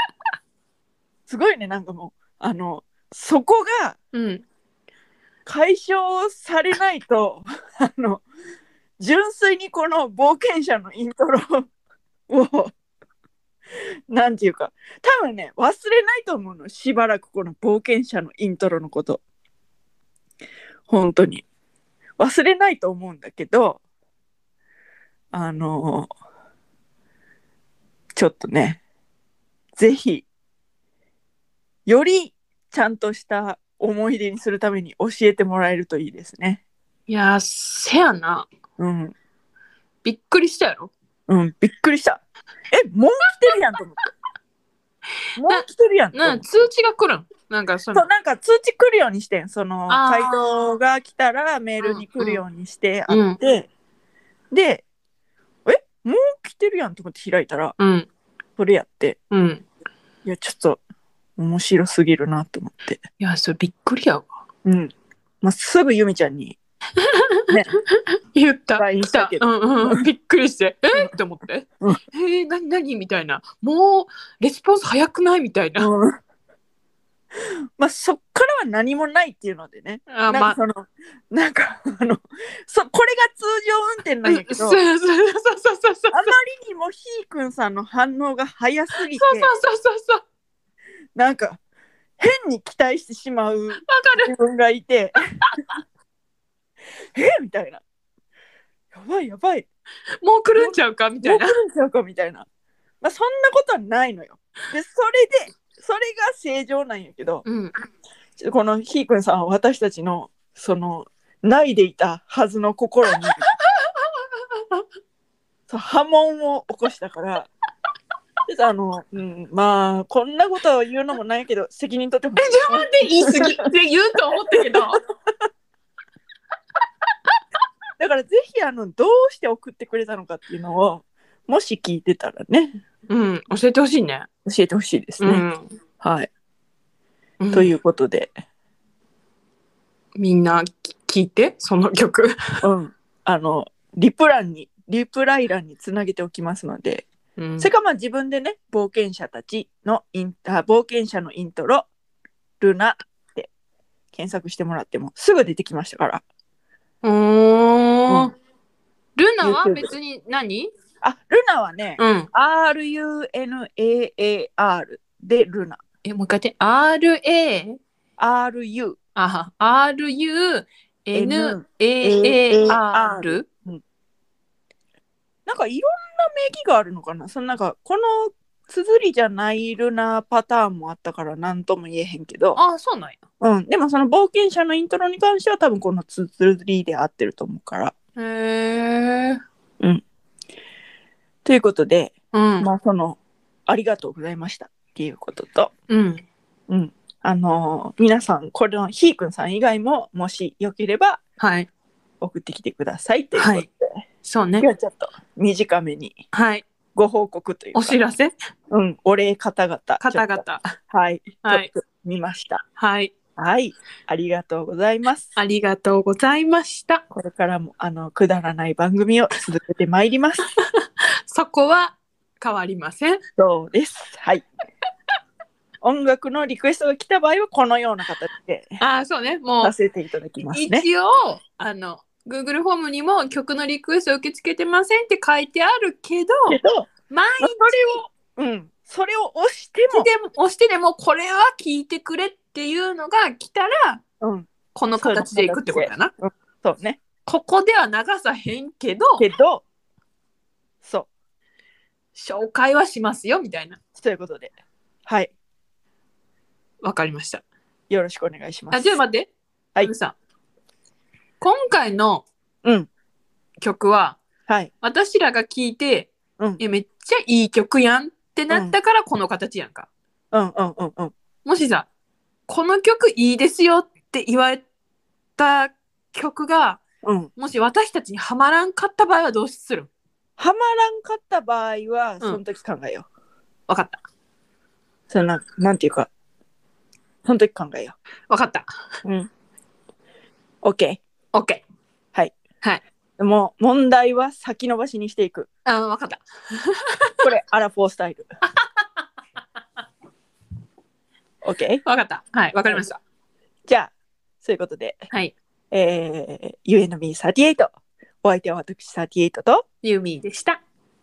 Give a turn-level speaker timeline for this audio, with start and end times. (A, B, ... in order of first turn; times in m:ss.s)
0:01.3-0:04.0 A
0:04.1-0:04.4 B
0:05.5-0:08.2 A
0:09.0-0:11.7 A
0:12.3-0:12.7 A
0:14.1-0:19.2 A
0:20.9-0:21.4 A
0:22.2-0:23.8 A
0:25.3-0:26.1 A
0:28.2-0:28.8 A
0:29.8-0:30.3 A
0:31.9-0:36.6 A
0:37.1-0:38.5 B
0:38.8-0:39.2 A
0:40.0-0:40.9 B
0:41.3-0:44.1 A
0:45.4-0:46.5 A
0:45.5-0:48.1 B
0:47.9-0:53.7 A
0:49.9-0:50.7 B
0:51.8-0:52.4 B
0:53.1-0:53.4 B
0:54.5-0:54.8 A
0:55.7-0:57.8 A
0:57.8-0:58.1 B
0:58.6-0:59.2 A
0:59.3-0:59.6 B
1:00.2-1:00.8 A
1:01.4-1:03.0 A
1:03.2-1:04.3 B
1:04.6-1:06.6 A
1:07.0-1:15.9 B
1:07.5-1:07.8 A
1:08.8-1:10.0 A
1:15.8-1:16.2 A
1:17.8-1:24.8 A
1:20.1-1:20.6 B
1:24.2-1:26.3 B
1:26.1-1:29.5 A
1:29.1-1:30.2 B
1:31.2-1:31.6 A
1:32.2-1:35.2 A
1:33.9-1:34.3 B
1:37.2-1:37.8 A
1:38.9-1:39.7 A
1:40.2-1:41.6 B
1:40.6-1:42.5 A
1:43.0-1:47.4 A
1:47.4-1:47.7 B
1:48.4-1:53.4 A
1:53.3-1:54.0 B
1:54.6-1:54.8 B
1:55.7-1:57.5 A
1:58.5-2:03.6 A
2:02.4-2:05.0 B
2:04.6-2:05.3 A
2:08.0-2:12.8 A
2:13.1-2:14.3 B
2:14.5-2:15.4 A
2:15.2-2:15.7 B
2:16.0-2:16.3 A
2:17.4-2:17.7 B
2:17.5-2:18.3 A
2:20.2-2:22.6 B
2:22.6-2:27.1 A
2:27.4-2:27.7 B
2:27.6-2:31.9 A
2:32.6-2:33.5 A
2:34.1-2:36.2 A
2:37.0-2:38.3 B
2:39.2-2:40.7 B
2:39.4-2:39.9 A
2:41.0-2:45.8 A
2:42.0-2:42.3 B
2:46.0-2:47.8 B
2:48.2-2:49.0 A
2:49.2-2:53.5 B
2:51.1-2:53.8 A
2:55.5-3:02.6 A
3:02.6-3:03.2 B
3:03.4-3:07.9 A
3:08.2-3:09.4 B
3:11.4-3:15.7 A
3:12.3-3:12.7 B
3:15.9-3:16.2 B
3:16.7-3:21.2 A
3:21.4-3:21.7 B
3:22.2-3:24.0 A
3:23.4-3:23.7 B
3:24.2-3:24.7 B
3:24.6-3:26.2 A
3:26.3-3:26.6 B
3:27.0-3:28.0 A
3:27.7-3:28.3 B
3:28.7-3:32.6 A
3:30.0-3:30.8 B
3:31.4-3:31.7 B
3:32.8-3:33.1 B
3:33.4-3:35.3 A
3:35.4-3:37.0 B
3:37.1-3:40.5 A
3:40.6-3:43.2 B
3:43.4-3:44.4 A
3:45.8-3:48.8 A
3:48.8-3:49.7 B
3:49.6-3:50.9 A
3:50.5-3:56.6 B
3:56.5-3:56.9 A
3:57.1-3:58.0 B
3:57.4-4:00.1 A
3:59.9-4:04.0 B
4:04.2-4:07.0 A
4:04.8-4:06.1 B
4:07.3-4:09.2 B
4:09.2-4:09.6 A
4:10.8-4:11.1 A
4:12.2-4:13.8 B
4:14.0-4:14.5 A
4:15.1-4:15.3 A
4:16.8-4:17.4 B
4:17.9-4:19.0 A
4:18.7-4:20.2 B
4:21.4-4:22.2 B
4:22.6-4:22.9 A
4:23.6-4:24.2 B
4:24.8-4:29.9 B
4:28.5-4:28.8 A
4:30.3-4:31.1 A
4:31.4-4:31.9 B
4:32.5-4:34.6 B
4:35.4-4:36.8 B
4:37.0-4:37.3 A
4:37.4-4:39.9 B
4:40.4-4:43.1 A
4:43.7-4:44.0 B
4:45.1-4:46.1 A
4:47.2-4:48.0 A
4:48.3-4:48.7 B
4:50.6-4:51.0 A
4:51.3-4:51.6 B
4:53.2-4:55.5 A
4:55.7-4:57.2 B
4:57.2-4:58.2 A
4:58.5-4:58.8 B
5:01.4-5:01.8 A
5:01.8-5:03.0 B
5:03.7-5:05.0 A
5:05.7-5:07.7 A
5:08.2-5:09.6 A
5:09.8-5:10.6 B